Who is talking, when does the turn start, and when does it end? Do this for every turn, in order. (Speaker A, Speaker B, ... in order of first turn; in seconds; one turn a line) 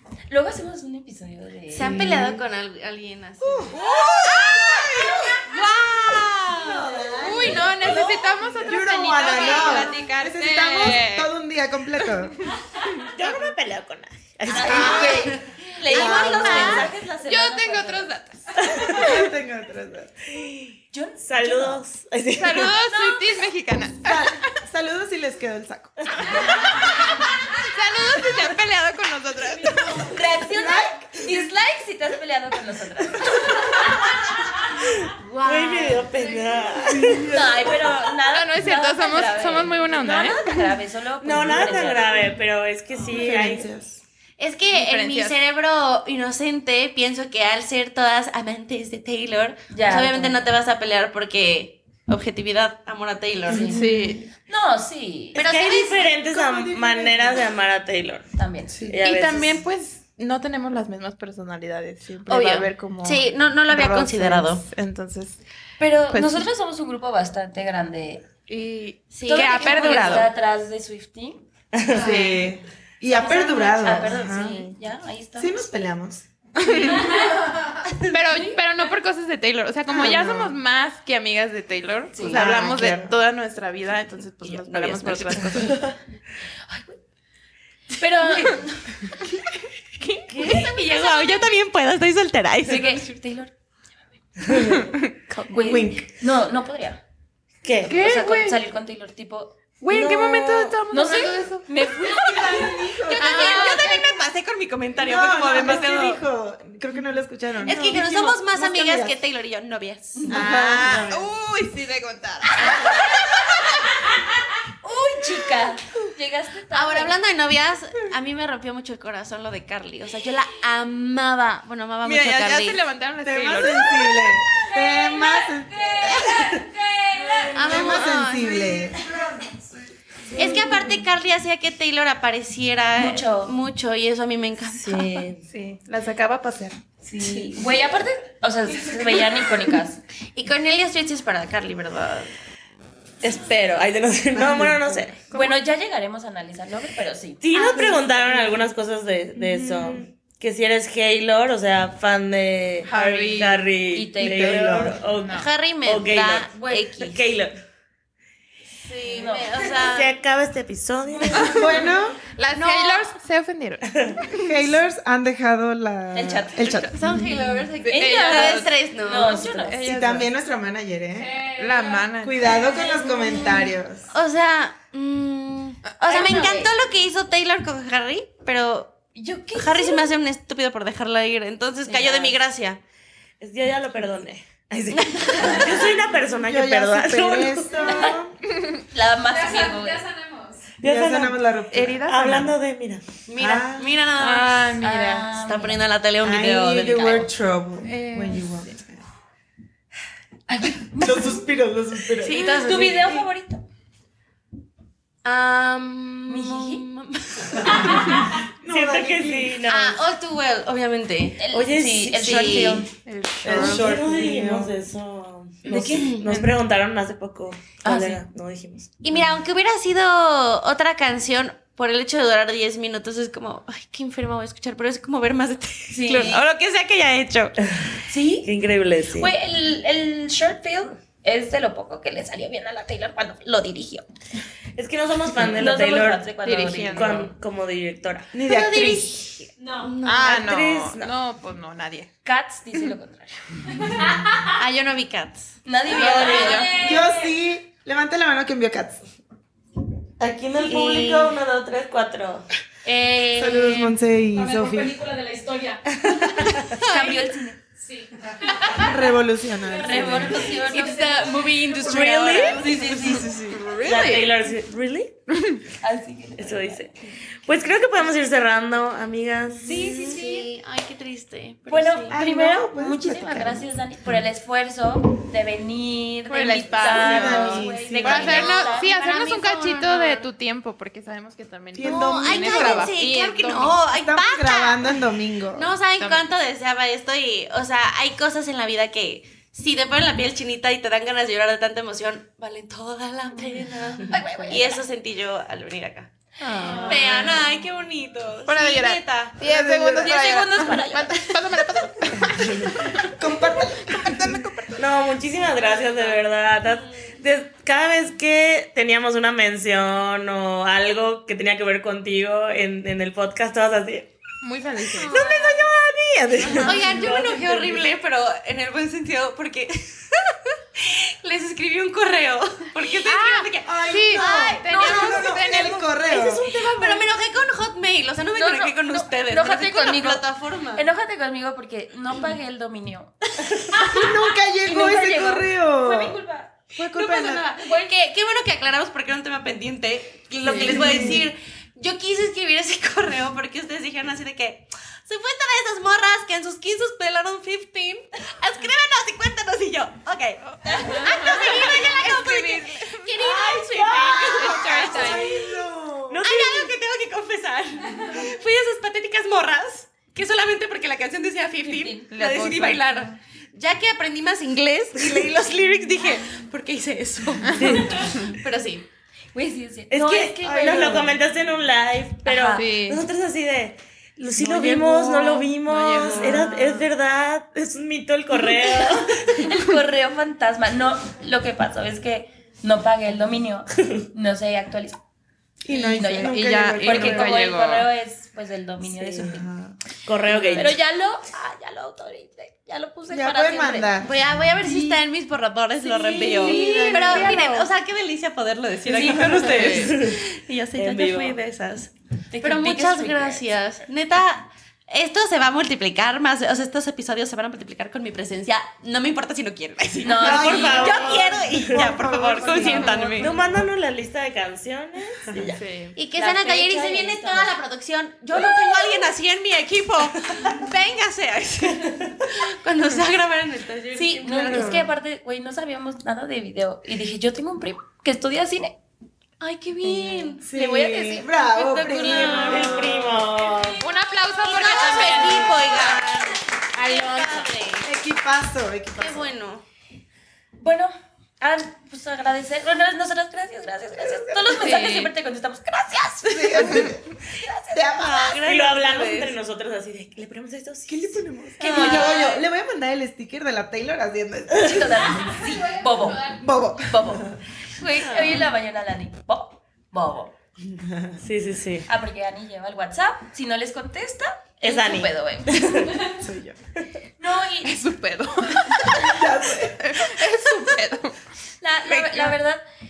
Speaker A: 0.3-2.3
Speaker B: 1.7-8.1
Speaker C: 1.8-2.4
Speaker C: 3.4-5.5
Speaker D: 3.9-5.1
Speaker C: 6.5-12.3
Speaker D: 7.2-11.3
Speaker A: 9.3-9.7
Speaker B: 9.4-9.9
Speaker D: 12.4-13.2
Speaker E: 13.1-15.2
Speaker A: 14.5-18.1
Speaker B: 14.6-16.9
Speaker C: 14.6-15.2
Speaker C: 15.9-16.9
Speaker D: 17.2-19.1
Speaker E: 18.6-19.1
Speaker C: 18.9-20.2
Speaker E: 20.3-20.7
Speaker A: 20.9-21.8
Speaker E: 21.3-22.7
Speaker D: 22.4-24.4
Speaker A: 22.8-23.3
Speaker C: 24.0-26.1
Speaker D: 26.4-30.2
Speaker A: 30.0-34.0
Speaker C: 30.5-31.5
Speaker B: 35.2-36.2
Speaker E: 35.4-37.9
Speaker A: 37.2-42.2
Speaker D: 38.3-40.8
Speaker E: 41.2-43.7
Speaker C: 43.1-44.0
Speaker B: 44.4-53.9
Speaker D: 44.7-45.4
Speaker A: 49.7-50.5
Speaker A: 53.5-53.8
Speaker C: 53.5-54.1
Speaker D: 53.7-54.2
Speaker A: 54.5-55.4
Speaker B: 55.4-56.1
Speaker E: 55.4-58.3
Speaker C: 56.2-57.5
Speaker A: 58.4-58.8
Speaker C: 58.7-59.0
Speaker E: 58.9-59.6
Speaker D: 59.0-65.4
Speaker B: 62.3-64.6
Speaker A: 65.8-68.3
Speaker D: 66.1-66.5
Speaker D: 68.5-70.3
Speaker B: 69.1-70.3
Speaker A: 69.2-71.4
Speaker E: 71.7-72.2
Speaker C: 71.9-74.8
Speaker D: 71.9-72.5
Speaker A: 73.1-75.7
Speaker C: 75.4-76.3
Speaker D: 76.6-85.9
Speaker A: 76.7-77.3
Speaker A: 78.3-78.6
Speaker C: 79.9-80.6
Speaker A: 82.1-82.7
Speaker C: 82.3-83.1
Speaker B: 84.4-85.8
Speaker A: 86.7-87.0
Speaker A: 87.9-89.2
Speaker D: 90.0-90.7
Speaker B: 90.3-93.2
Speaker A: 90.4-91.2
Speaker A: 92.7-93.5
Speaker D: 94.5-95.9
Speaker A: 95.5-97.0
Speaker C: 95.6-96.1
Speaker E: 97.6-98.0
Speaker D: 97.9-98.6
Speaker A: 97.9-99.5
Speaker D: 99.8-102.5
Speaker E: 99.9-100.8
Speaker A: 100.9-104.0
Speaker C: 102.1-103.8
Speaker B: 103.1-106.2
Speaker D: 103.2-104.0
Speaker C: 105.0-109.2
Speaker B: 107.7-111.0
Speaker A: 110.2-110.5
Speaker C: 110.3-111.3
Speaker D: 110.3-113.7
Speaker A: 112.6-113.7
Speaker A: 114.8-117.2
Speaker B: 116.7-122.8
Speaker D: 122.0-124.2
Speaker C: 123.2-126.4
Speaker C: 127.3-129.6
Speaker B: 127.4-128.9
Speaker B: 130.3-135.2
Speaker A: 133.0-133.6
Speaker E: 134.7-135.4
Speaker D: 135.5-137.5
Speaker A: 137.0-140.0
Speaker B: 140.3-142.3
Speaker E: 143.2-145.2
Speaker C: 144.3-145.0
Speaker A: 145.3-148.1
Speaker E: 147.4-157.5
Speaker B: 147.5-148.2
Speaker D: 152.8-153.7
Speaker A: 153.9-154.8
Speaker C: 154.2-155.0
Speaker B: 155.3-157.2
Speaker A: 156.5-156.9
Speaker B: 158.8-160.1
Speaker A: 159.1-159.7
Speaker E: 159.6-161.7
Speaker D: 161.4-164.6
Speaker C: 161.4-162.2
Speaker B: 162.5-163.1
Speaker E: 163.9-164.2
Speaker C: 164.4-167.2
Speaker A: 166.1-166.9
Speaker B: 166.9-169.5
Speaker D: 167.8-168.7
Speaker A: 167.9-170.0
Speaker D: 169.3-170.3
Speaker C: 169.8-171.5
Speaker D: 171.4-172.8
Speaker C: 172.2-174.1
Speaker B: 172.8-173.5
Speaker B: 174.1-179.0
Speaker A: 176.0-176.7
Speaker A: 179.2-180.1
Speaker B: 179.6-182.8
Speaker A: 181.8-182.4
Speaker E: 183.4-187.9
Speaker B: 185.0-185.9
Speaker C: 186.4-188.4
Speaker A: 187.9-188.2
Speaker A: 188.9-190.2
Speaker E: 190.8-191.4
Speaker C: 190.8-192.5
Speaker D: 191.7-192.4
Speaker E: 192.1-193.0
Speaker B: 193.3-194.7
Speaker C: 193.4-194.0
Speaker D: 194.1-195.3
Speaker A: 194.8-195.8
Speaker B: 195.3-197.3
Speaker C: 196.2-199.0
Speaker D: 197.8-198.5
Speaker A: 200.5-201.5
Speaker C: 200.9-202.8
Speaker B: 202.2-203.2
Speaker A: 202.3-203.6
Speaker B: 205.2-208.3
Speaker A: 206.3-206.8
Speaker C: 208.6-209.6
Speaker E: 208.6-210.0
Speaker B: 209.7-212.9
Speaker A: 211.4-212.9
Speaker E: 211.5-212.7
Speaker D: 213.0-214.0
Speaker C: 213.4-214.8
Speaker E: 213.4-219.2
Speaker B: 215.7-216.5
Speaker A: 215.7-216.4
Speaker A: 217.8-218.2
Speaker B: 219.0-227.6
Speaker A: 225.9-226.4
Speaker A: 228.1-228.5
Speaker E: 228.4-229.3
Speaker A: 229.1-234.1
Speaker E: 234.8-236.3
Speaker A: 235.5-237.3
Speaker D: 236.4-237.3
Speaker E: 236.9-238.3
Speaker C: 238.3-239.1
Speaker B: 238.4-240.4
Speaker D: 240.0-242.1
Speaker E: 240.2-241.1
Speaker A: 242.2-244.1
Speaker B: 244.4-247.1
Speaker A: 245.7-247.1
Speaker E: 245.9-246.8
Speaker C: 246.8-249.0
Speaker E: 250.2-252.5
Speaker B: 250.5-251.3
Speaker A: 252.8-254.0
Speaker C: 253.3-255.1
Speaker B: 255.1-257.3
Speaker A: 256.7-257.6
Speaker B: 258.5-258.9
Speaker C: 258.8-260.5
Speaker A: 259.7-263.3
Speaker E: 259.9-260.3
Speaker B: 260.4-263.6
Speaker E: 261.6-263.1
Speaker C: 263.1-263.3
Speaker D: 263.5-264.3
Speaker E: 263.8-265.1
Speaker D: 265.3-265.6
Speaker A: 265.8-267.1
Speaker E: 266.4-270.2
Speaker A: 269.6-270.5
Speaker B: 269.7-272.1
Speaker A: 271.7-279.5
Speaker C: 272.1-273.7
Speaker D: 276.3-283.8
Speaker C: 276.9-278.4
Speaker B: 278.0-280.3
Speaker C: 281.7-283.0
Speaker B: 281.8-284.9
Speaker C: 283.9-285.8
Speaker B: 285.5-296.1
Speaker D: 286.0-286.3
Speaker A: 294.1-294.8
Speaker D: 296.4-297.4
Speaker B: 296.7-299.4
Speaker D: 298.5-305.0
Speaker C: 299.4-300.1
Speaker A: 299.9-301.4
Speaker C: 302.8-304.4
Speaker E: 304.8-314.1
Speaker B: 305.6-306.9
Speaker D: 314.4-315.2
Speaker B: 314.9-315.7
Speaker E: 315.0-317.9
Speaker D: 316.4-316.8
Speaker B: 316.6-325.4
Speaker D: 323.0-327.1
Speaker C: 323.7-326.4
Speaker B: 326.1-330.9
Speaker A: 328.4-336.5
Speaker C: 333.8-336.2
Speaker C: 336.7-337.5
Speaker B: 336.9-355.6
Speaker C: 340.4-341.3
Speaker A: 340.5-341.2
Speaker D: 350.7-353.2
Speaker E: 353.3-355.2
Speaker D: 354.1-355.3
Speaker C: 354.8-356.3
Speaker E: 356.1-356.7
Speaker B: 356.2-368.9
Speaker A: 361.6-362.1
Speaker D: 362.1-363.1
Speaker E: 367.5-368.1
Speaker A: 369.3-371.2
Speaker E: 369.9-379.5
Speaker C: 370.6-371.1
Speaker A: 372.2-372.7
Speaker D: 372.5-373.1
Speaker B: 374.4-375.5
Speaker D: 375.6-376.9
Speaker A: 378.8-385.0
Speaker C: 385.6-387.5
Speaker A: 385.7-389.5
Speaker D: 386.2-387.9
Speaker C: 389.1-389.7
Speaker E: 390.1-390.8
Speaker C: 390.3-390.7
Speaker A: 390.6-394.0
Speaker C: 393.1-395.0
Speaker B: 394.0-413.4
Speaker C: 395.9-397.6
Speaker A: 395.9-397.4
Speaker D: 396.5-397.6
Speaker A: 398.9-399.8
Speaker E: 399.5-400.2
Speaker D: 399.6-399.9
Speaker E: 400.8-401.4
Speaker A: 402.3-403.5
Speaker A: 410.0-411.4
Speaker C: 410.2-413.0
Speaker E: 410.3-412.0
Speaker D: 412.5-413.3
Speaker E: 413.1-415.6
Speaker C: 415.3-415.5
Speaker D: 415.6-416.0
Speaker B: 416.0-424.8
Speaker A: 416.1-417.5
Speaker A: 423.9-428.8
Speaker C: 424.4-424.9
Speaker B: 429.4-433.1
Speaker A: 429.8-432.4
Speaker C: 430.4-433.2
Speaker E: 432.3-433.8
Speaker D: 433.8-435.9
Speaker B: 434.4-437.9
Speaker A: 434.6-436.0
Speaker A: 436.9-437.3
Speaker C: 437.8-439.3
Speaker B: 439.0-439.6
Speaker A: 440.6-448.1
Speaker C: 444.0-444.6
Speaker D: 444.5-445.1
Speaker C: 446.3-447.1
Speaker C: 447.7-448.4
Speaker B: 447.9-449.3
Speaker E: 448.4-451.2
Speaker C: 450.9-455.5
Speaker A: 451.6-452.4
Speaker B: 451.6-452.4
Speaker A: 454.6-460.4
Speaker C: 456.1-457.4
Speaker B: 458.0-458.5
Speaker E: 461.2-461.9
Speaker A: 461.9-466.1
Speaker E: 464.6-466.1
Speaker C: 466.1-466.6
Speaker A: 467.2-467.8
Speaker D: 467.6-471.2
Speaker C: 469.0-470.1
Speaker A: 471.6-472.6